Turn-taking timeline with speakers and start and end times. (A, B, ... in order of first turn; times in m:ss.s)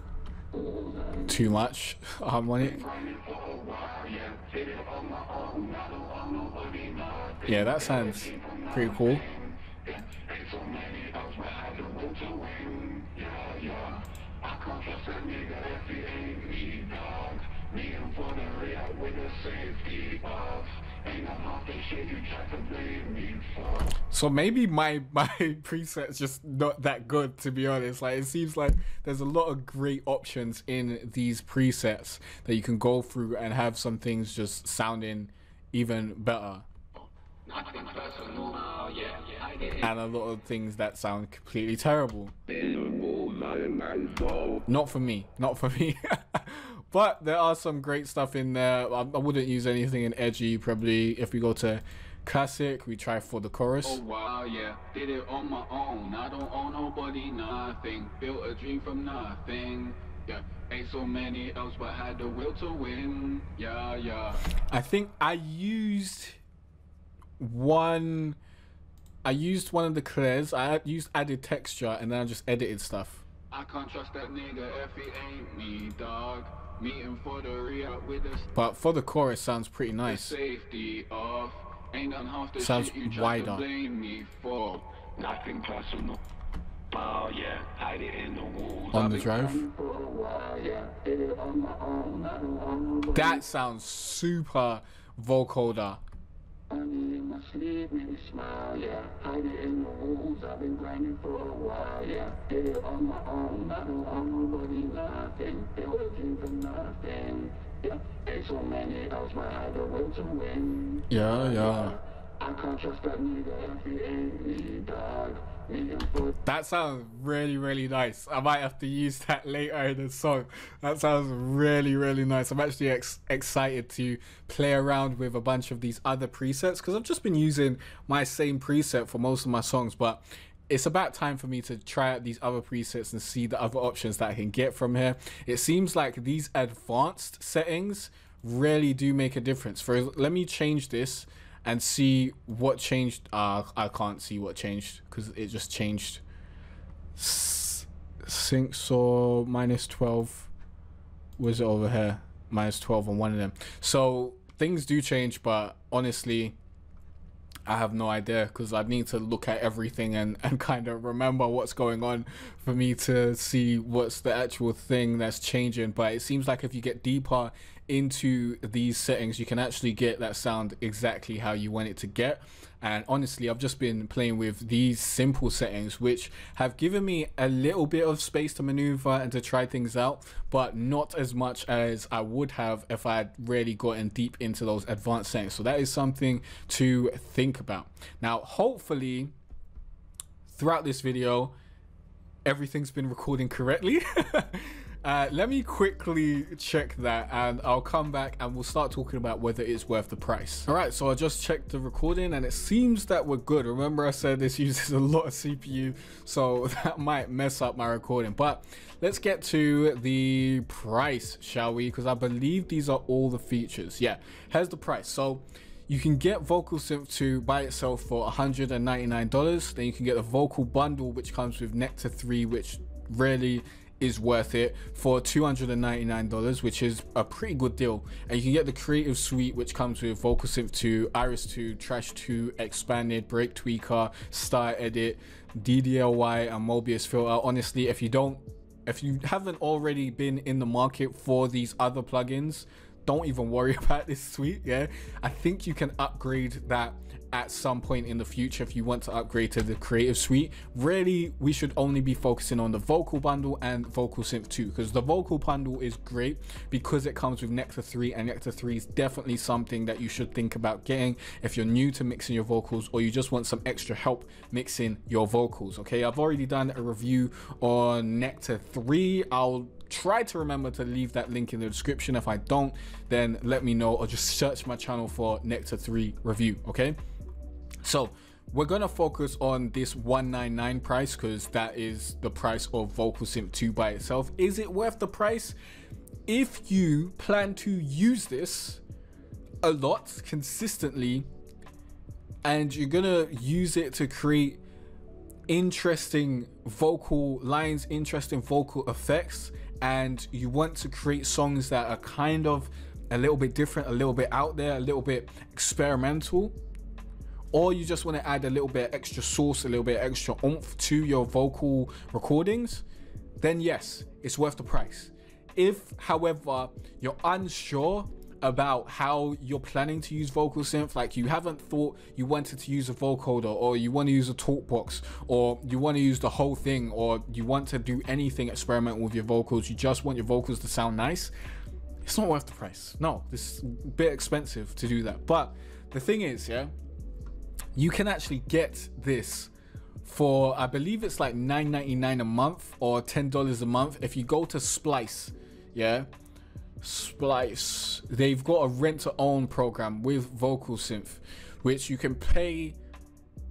0:00.5-0:01.5 A
0:01.3-0:02.8 B
0:02.6-0:23.9 A
0:07.4-0:09.2 B
0:24.1-0:36.7 B
0:37.4-0:39.9 A
0:39.8-0:42.3 B
0:42.5-0:44.6 A
0:44.7-0:54.0 B
0:53.8-1:04.4 A
1:04.5-1:06.4 B
1:07.4-1:08.4 B
1:09.2-1:13.2 B
1:13.5-1:18.5 A
1:18.5-1:20.4 B
1:20.0-1:26.2 A
1:22.6-1:23.7 B
1:26.9-1:33.4 A
1:28.9-1:29.6 B
1:33.1-1:36.0 B
1:36.7-1:56.4 A
1:51.1-1:52.0 B
1:56.4-2:26.2 B
2:27.2-2:30.5 B
2:31.4-2:36.6 B
2:37.7-3:09.3 B
3:10.4-3:11.6 B
3:12.4-4:37.0 B
4:37.8-4:45.6 B
4:46.3-4:48.8 B
4:49.6-4:51.2 B
4:52.4-4:54.6 B
4:55.5-5:06.6 B
5:07.5-5:12.8 B
5:13.4-5:31.3 B
5:32.0-5:36.7 B
5:37.7-5:39.5 B
5:40.0-5:46.1 B
5:46.8-5:52.8 B